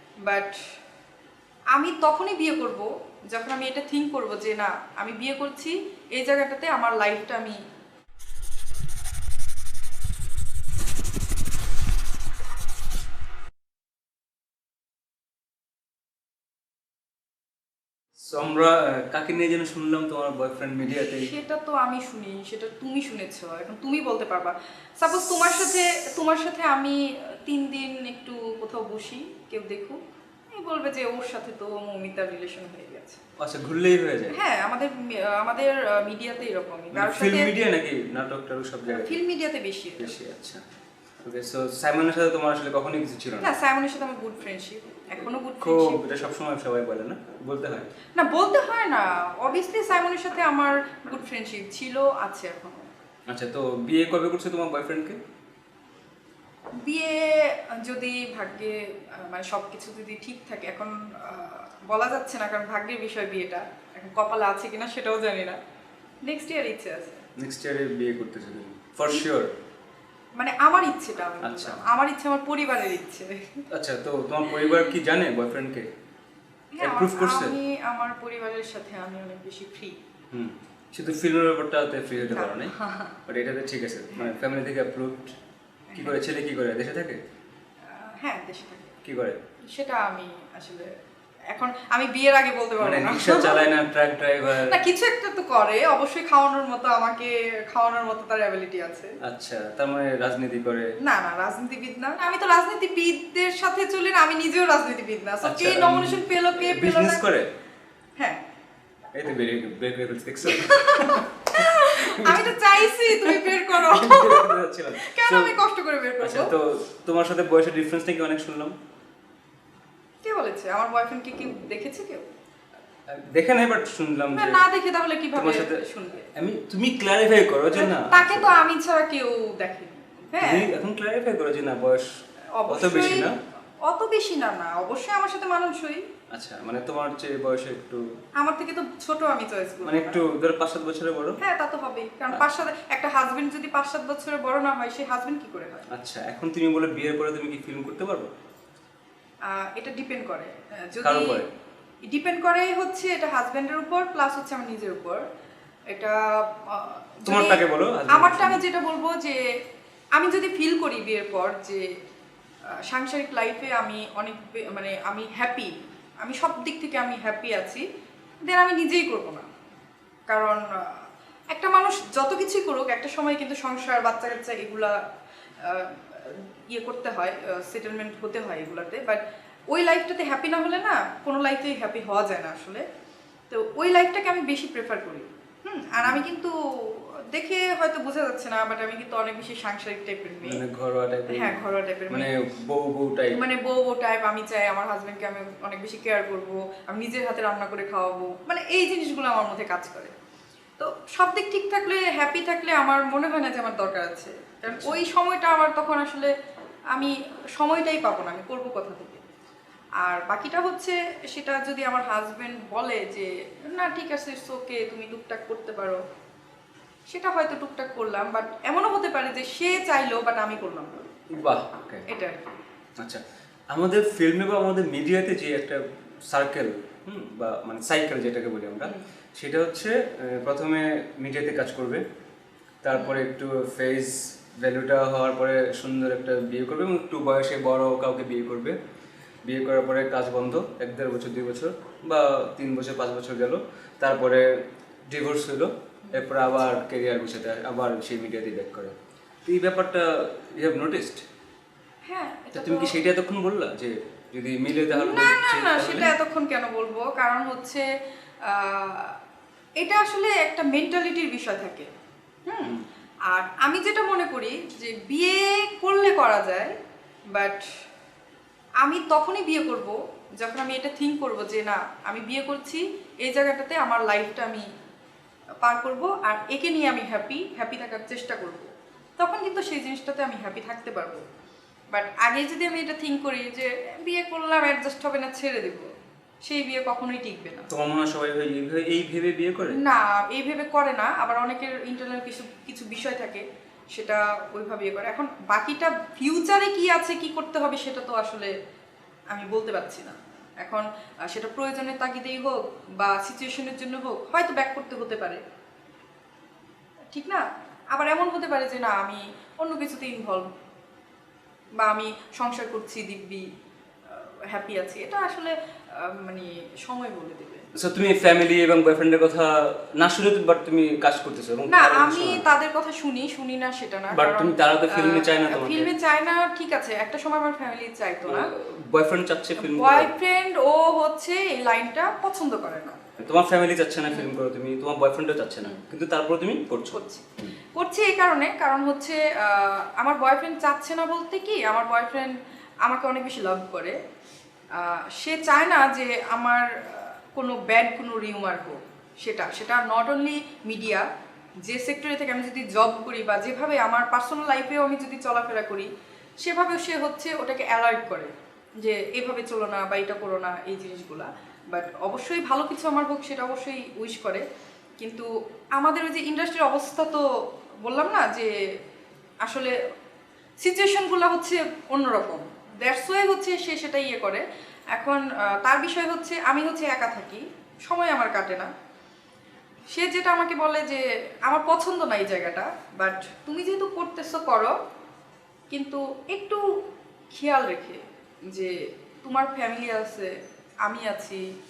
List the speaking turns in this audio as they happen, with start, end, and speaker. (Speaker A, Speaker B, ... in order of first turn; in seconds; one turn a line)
Speaker A: 0.2-0.6
Speaker A: 1.7-7.6
Speaker B: 18.2-21.3
Speaker A: 21.1-30.0
Speaker A: 30.5-33.2
Speaker B: 33.4-34.4
Speaker A: 34.3-37.5
Speaker B: 36.9-39.1
Speaker A: 38.9-40.1
Speaker B: 40.0-40.6
Speaker B: 41.2-43.5
Speaker A: 43.4-46.0
Speaker B: 45.6-47.9
Speaker A: 48.1-52.9
Speaker B: 53.3-55.2
Speaker A: 56.8-65.6
Speaker A: 66.2-67.2
Speaker B: 67.4-69.5
Speaker A: 70.4-73.6
Speaker B: 71.4-71.8
Speaker B: 73.7-75.9
Speaker A: 74.5-74.8
Speaker A: 76.7-80.0
Speaker B: 76.8-77.5
Speaker B: 80.3-82.7
Speaker A: 82.3-83.2
Speaker B: 83.3-85.3
Speaker A: 85.9-86.1
Speaker B: 85.9-87.2
Speaker A: 87.9-88.9
Speaker B: 89.0-89.4
Speaker A: 89.7-90.9
Speaker A: 91.5-93.6
Speaker B: 92.8-94.8
Speaker A: 94.5-99.1
Speaker B: 99.2-100.9
Speaker A: 101.0-107.2
Speaker B: 105.4-107.5
Speaker B: 109.1-115.5
Speaker A: 110.5-116.5
Speaker B: 116.2-118.8
Speaker A: 120.2-122.3
Speaker B: 123.1-124.6
Speaker A: 124.3-126.3
Speaker B: 125.3-125.8
Speaker B: 126.3-128.6
Speaker A: 127.7-130.7
Speaker B: 130.4-132.1
Speaker A: 132.5-133.3
Speaker B: 132.7-133.3
Speaker A: 133.8-136.0
Speaker B: 136.3-138.0
Speaker A: 138.4-140.2
Speaker B: 139.8-141.4
Speaker A: 141.4-145.9
Speaker B: 145.9-148.3
Speaker A: 149.4-151.4
Speaker B: 151.0-151.5
Speaker A: 152.1-155.2
Speaker A: 155.9-159.4
Speaker B: 157.2-158.6
Speaker A: 160.2-161.8
Speaker A: 162.8-167.8
Speaker A: 168.4-169.5
Speaker A: 170.3-171.0
Speaker A: 171.5-175.0
Speaker A: 175.6-182.8
Speaker A: 183.5-190.6
Speaker B: 190.4-191.6
Speaker A: 191.3-192.3
Speaker B: 192.1-193.4
Speaker A: 193.3-200.1
Speaker A: 200.8-206.3
Speaker B: 204.8-205.0
Speaker A: 206.9-209.2
Speaker A: 210.0-216.0
Speaker A: 217.1-221.0
Speaker B: 221.3-222.1
Speaker A: 222.1-222.4
Speaker B: 223.7-232.0
Speaker B: 232.8-238.8
Speaker B: 239.4-244.4
Speaker B: 245.1-248.9
Speaker A: 246.0-246.4
Speaker B: 249.4-251.2
Speaker A: 252.1-253.0
Speaker B: 252.5-256.1
Speaker A: 254.9-257.9
Speaker A: 258.4-259.1
Speaker A: 259.8-261.9
Speaker A: 262.5-262.8
Speaker A: 263.3-266.7
Speaker A: 267.3-267.6
Speaker A: 268.8-274.7
Speaker A: 275.6-281.2
Speaker A: 281.9-285.8
Speaker A: 286.4-287.7
Speaker B: 287.7-289.8
Speaker A: 289.7-298.5
Speaker A: 299.3-305.4
Speaker A: 307.1-310.5
Speaker A: 311.8-313.4
Speaker A: 314.1-317.6
Speaker B: 317.7-322.5
Speaker A: 321.7-328.5
Speaker B: 324.1-325.9
Speaker B: 328.2-330.1
Speaker A: 329.6-333.0
Speaker B: 333.2-337.5
Speaker A: 336.9-342.3
Speaker A: 342.8-344.0
Speaker A: 344.7-351.1
Speaker A: 351.6-364.4
Speaker A: 365.0-367.2
Speaker A: 367.8-368.6
Speaker A: 369.4-369.8
Speaker A: 370.6-378.7
Speaker A: 379.9-384.7
Speaker A: 385.7-386.6
Speaker A: 387.3-390.3
Speaker A: 390.8-391.4